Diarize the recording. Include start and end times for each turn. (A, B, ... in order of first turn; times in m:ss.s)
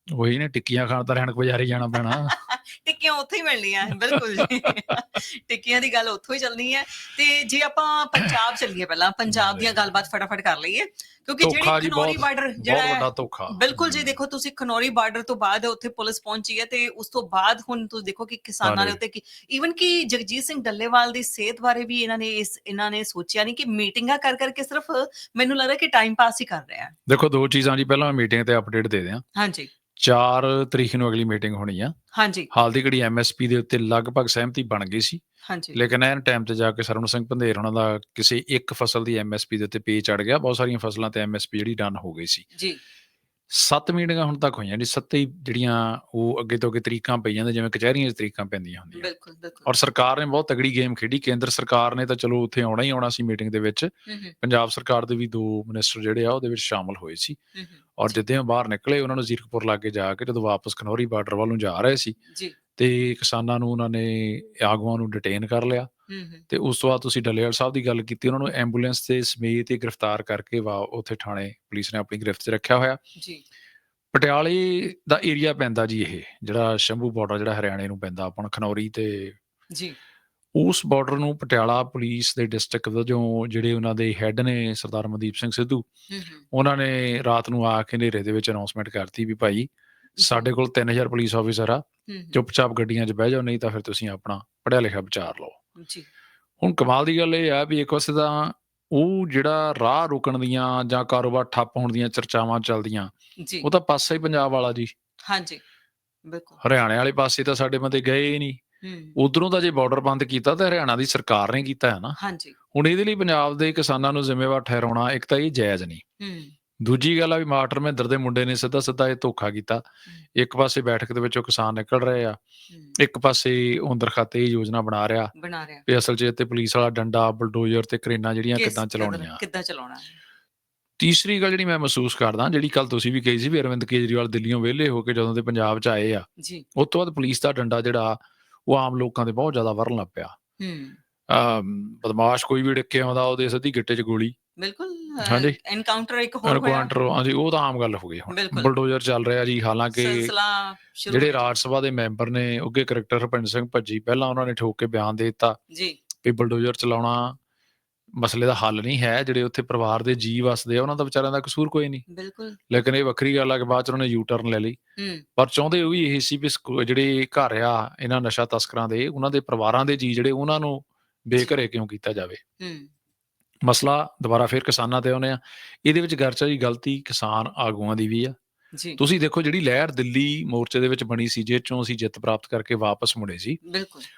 0:00.1-0:02.4 A
0:02.1-0:27.0 B
0:03.9-0:05.0 A
0:09.3-0:09.9 A
0:11.4-0:14.2 A
0:18.6-0:19.0 A
0:27.1-0:29.2 A
0:29.4-0:29.7 B
0:30.0-0:32.0 A
0:32.1-0:32.5 B
0:32.5-0:35.2 A
0:35.5-0:35.9 B
0:35.7-0:42.4 A
0:43.5-0:49.1 A
0:48.9-0:49.7 B
0:49.6-0:57.4 A
0:54.1-0:54.4 B
0:57.6-0:58.2 B
0:58.0-1:02.2 A
1:02.3-1:02.6 B
1:02.8-1:05.9 A
1:06.1-1:06.4 B
1:06.5-1:13.0 A
1:13.2-1:13.4 B
1:14.1-1:19.4 A
1:20.6-1:25.9 A
1:26.1-1:26.4 B
1:26.5-1:29.7 A
1:30.2-1:30.5 B
1:30.2-1:35.6 A
1:32.1-1:32.4 B
1:35.8-1:36.1 B
1:36.6-1:44.9 A
1:43.4-1:43.7 B
1:45.2-1:45.6 B
1:46.3-1:46.6 B
1:46.6-1:48.6 A
1:48.8-1:49.2 B
1:49.2-1:52.2 A
1:52.2-1:52.6 B
1:52.7-1:56.0 A
1:56.2-1:56.5 B
1:56.8-1:59.8 A
2:00.4-2:02.4 A
2:02.7-2:03.0 B
2:03.0-2:05.3 A
2:05.4-2:05.8 B
2:05.9-2:09.4 A
2:08.6-2:10.1 B
2:11.0-2:20.4 A
2:16.4-2:16.7 B
2:20.6-2:21.0 B
2:21.3-2:24.4 A
2:24.6-2:26.9 B
2:25.2-2:25.6 A
2:26.4-2:30.3 A
2:28.3-2:28.7 B
2:29.9-2:31.5 B
2:31.1-2:35.6 A
2:35.7-2:36.0 B
2:36.2-2:37.4 A
2:38.2-2:42.0 A
2:42.1-2:42.6 B
2:42.7-2:44.8 A
2:45.0-2:45.2 B
2:45.4-2:52.4 A
2:52.6-2:52.9 B
2:53.6-2:58.4 A
2:58.7-2:59.0 B
2:59.0-3:03.6 A
3:03.6-3:04.1 B